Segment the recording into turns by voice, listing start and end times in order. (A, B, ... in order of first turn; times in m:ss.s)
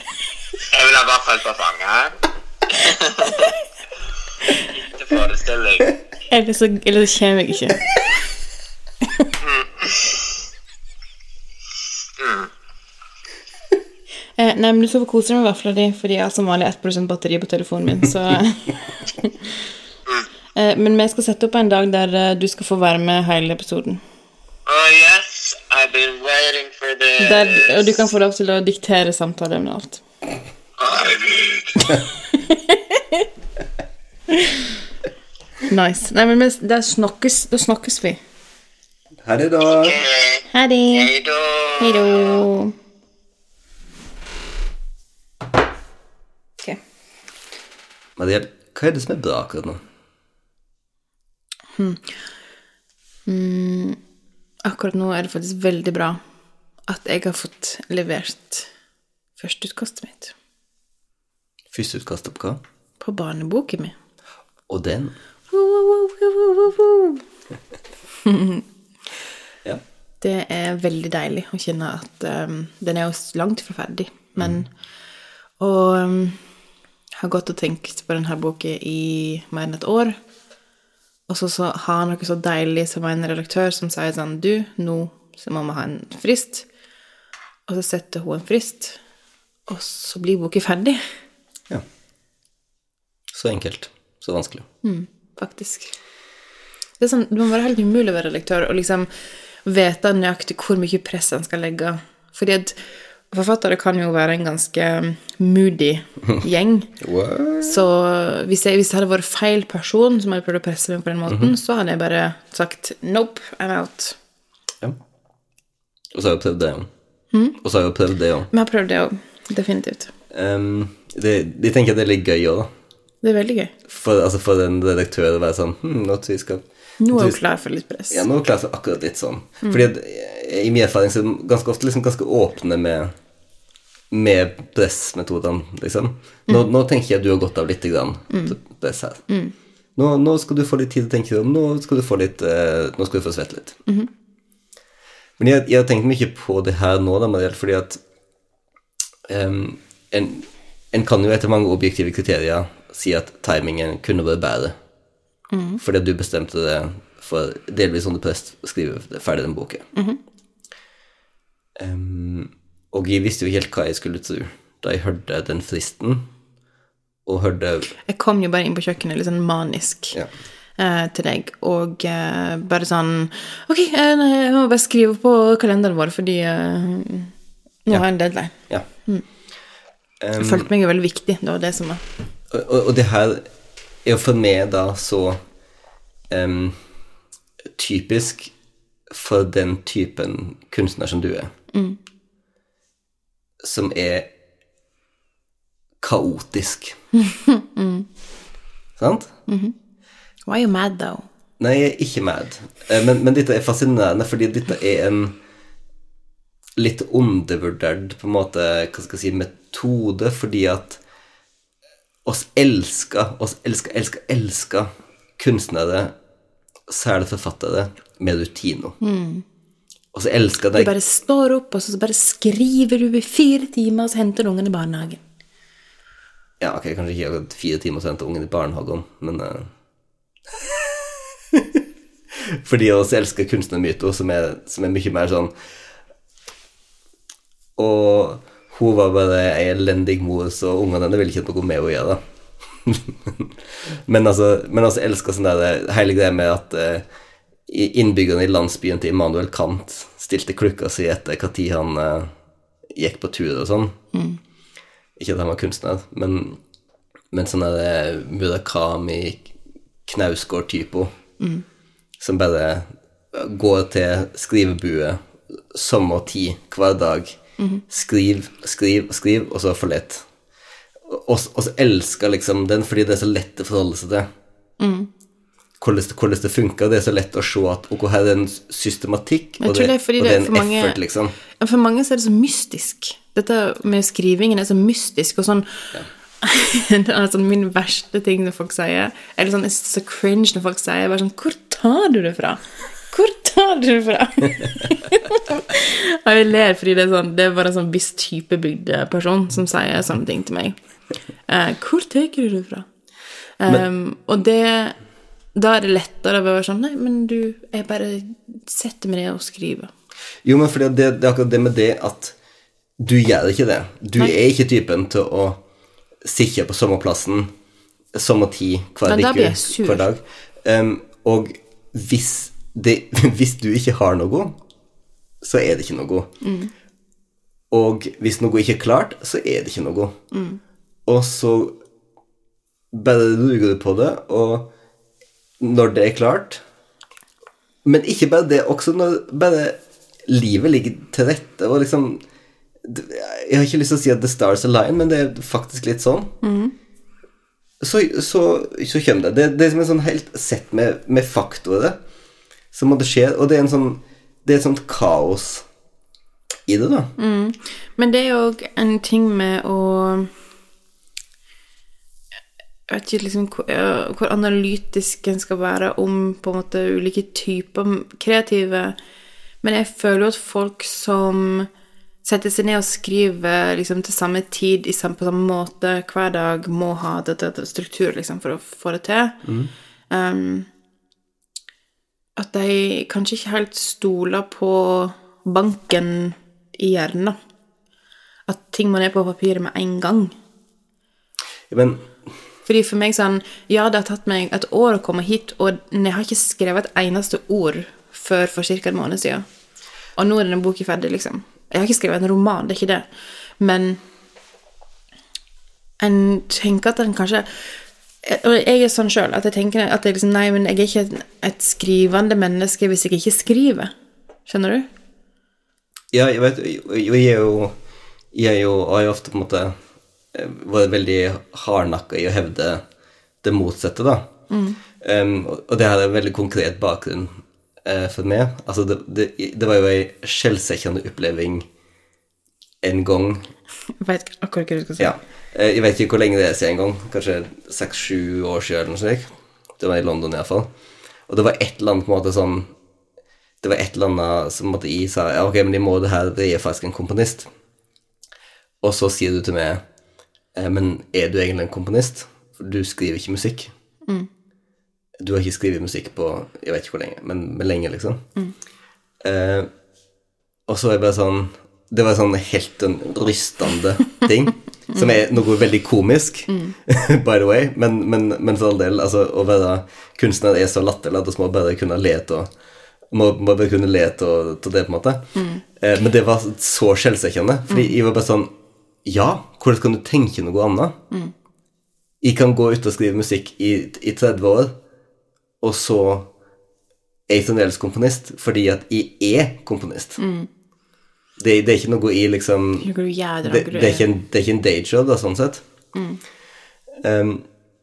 0:00.7-0:02.1 A
0:02.7-0:03.5 A
0:04.7-0:05.9 A
0:06.3-0:07.8 B
0:09.0-0:09.3 B
0:09.4-0:10.2 A
0:12.2-0:12.5 A
0:14.4-0:19.5 B
0:20.5-0:24.0 B
0:24.7-0:27.9 A
0:27.2-0:30.0 B
0:30.8-0:31.9 A
0:32.3-0:33.3 B
0:34.3-0:34.7 B
0:35.6-0:38.2 B
0:39.2-0:40.0 C
0:39.6-0:42.4 A
0:40.5-0:41.1 B
0:41.8-0:42.7 B
0:48.2-0:49.8 C
0:51.7-0:52.1 B
0:53.2-0:54.0 B
0:54.6-0:56.2 B
0:56.9-0:58.7 B
0:59.4-1:00.3 B
1:01.7-1:02.6 C
1:03.0-1:03.9 B
1:04.7-1:05.1 C
1:05.5-1:07.2 B
1:08.2-1:08.6 B
1:10.2-1:14.7 B
1:14.3-1:14.7 C
1:15.6-1:16.4 B
1:17.2-1:20.2 B
1:21.3-1:26.6 B
1:27.7-1:29.0 B
1:29.7-1:31.0 B
1:33.3-1:34.7 C
1:34.8-1:35.9 B
1:37.0-1:39.1 B
1:39.6-1:47.0 B
1:47.0-1:47.8 C
1:47.6-1:54.2 B
1:51.3-1:51.5 C
1:56.1-1:56.9 C
1:57.3-1:57.6 B
1:57.6-1:58.5 C
1:58.5-2:00.1 B
2:00.3-2:02.7 C
2:03.2-2:03.7 B
2:03.9-2:07.4 C
2:07.0-2:08.2 B
2:08.1-2:13.1 C
2:09.6-2:09.9 B
2:14.1-2:19.2 C
2:18.3-2:18.6 B
2:19.3-2:19.5 B
2:20.0-2:23.8 C
2:25.4-2:28.0 C
2:29.3-2:34.8 C
2:35.5-2:35.8 B
2:35.8-2:39.8 C
2:39.9-2:40.2 B
2:41.8-2:46.3 C
2:47.2-2:47.9 C
2:48.0-2:50.2 B
2:50.8-2:57.3 B
2:57.8-2:59.2 B
2:57.9-2:58.9 C
3:00.2-3:00.7 C
3:00.4-3:02.0 B
3:02.5-3:03.5 C
3:04.0-3:05.4 C
3:06.3-3:06.8 C
3:07.7-3:08.5 C
3:09.1-3:11.5 C
3:11.7-3:12.0 B
3:13.6-3:14.3 C
3:16.0-3:17.0 C
3:17.1-3:18.1 B
3:19.0-3:19.3 C
3:19.5-3:19.7 B
3:20.4-3:21.3 B
3:21.6-3:25.4 C
3:26.8-3:31.0 C
3:32.2-3:36.1 C
3:36.9-3:39.0 C
3:39.0-3:39.4 B
3:40.1-3:40.9 C
3:40.8-3:45.2 B
3:46.6-3:49.7 C
3:52.6-3:55.5 C
3:57.8-4:02.2 C
4:02.8-4:03.5 C
4:04.1-4:07.1 C
4:07.7-4:12.3 C
4:12.9-4:14.0 C
4:14.1-4:14.4 B
4:15.2-4:16.6 C
4:17.3-4:19.5 C
4:20.0-4:21.2 C
4:21.4-4:21.6 B
4:22.2-4:30.3 C
4:27.6-4:27.8 B
4:31.1-4:34.3 C
4:34.8-4:35.1 B
4:35.8-4:41.3 C
4:39.6-5:00.8 B
5:01.5-5:02.9 B
5:03.6-5:05.0 B
5:05.5-5:09.9 B
5:10.4-5:12.4 C
5:13.0-5:15.6 C
5:16.2-5:17.5 C
5:18.1-5:24.6 C
5:19.0-5:20.1 B
5:25.4-5:26.3 C
5:26.4-5:26.7 B
5:27.7-5:30.2 C
5:30.3-5:30.6 B
5:31.1-5:31.8 C
5:32.9-5:34.7 C
5:35.6-5:36.6 C
5:37.8-5:42.2 C
5:42.8-5:46.4 C
5:46.4-5:46.7 B
5:47.8-5:52.0 C
5:52.7-5:55.7 C
5:56.7-5:57.1 C
5:57.2-6:00.3 B
6:02.9-6:09.0 B
6:09.6-6:11.7 B
6:12.2-6:19.4 B
6:19.4-6:19.7 C
6:20.1-6:20.7 B
6:22.4-6:27.4 B
6:28.5-6:30.4 B
6:31.7-6:32.1 C
6:32.6-6:39.4 B
6:40.2-6:43.1 B
6:43.6-6:44.0 B
6:46.0-6:53.9 B
6:54.4-6:54.9 B
6:56.1-6:57.8 C
6:58.3-6:59.8 C
7:00.3-7:02.8 C
7:03.4-7:04.3 C
7:04.5-7:04.8 B
7:05.0-7:11.7 C
7:12.8-7:13.5 C
7:14.0-7:15.2 B
7:15.0-7:20.7 C
7:21.3-7:22.7 C
7:23.6-7:27.5 C
7:28.8-7:29.8 C
7:30.5-7:33.7 C
7:35.2-7:38.2 C
7:39.2-7:39.7 C
7:40.7-7:52.5 C
7:44.9-7:45.2 B
7:46.5-7:46.8 B
7:53.1-7:58.5 C
7:55.3-7:55.6 B
7:59.0-8:01.0 C
8:02.2-8:04.8 C
8:05.6-8:06.3 C
8:07.3-8:10.2 C
8:10.2-8:10.5 B
8:11.4-8:12.9 C
8:12.8-8:14.1 B
8:13.4-8:15.6 C
8:15.9-8:16.2 B
8:17.0-8:17.5 C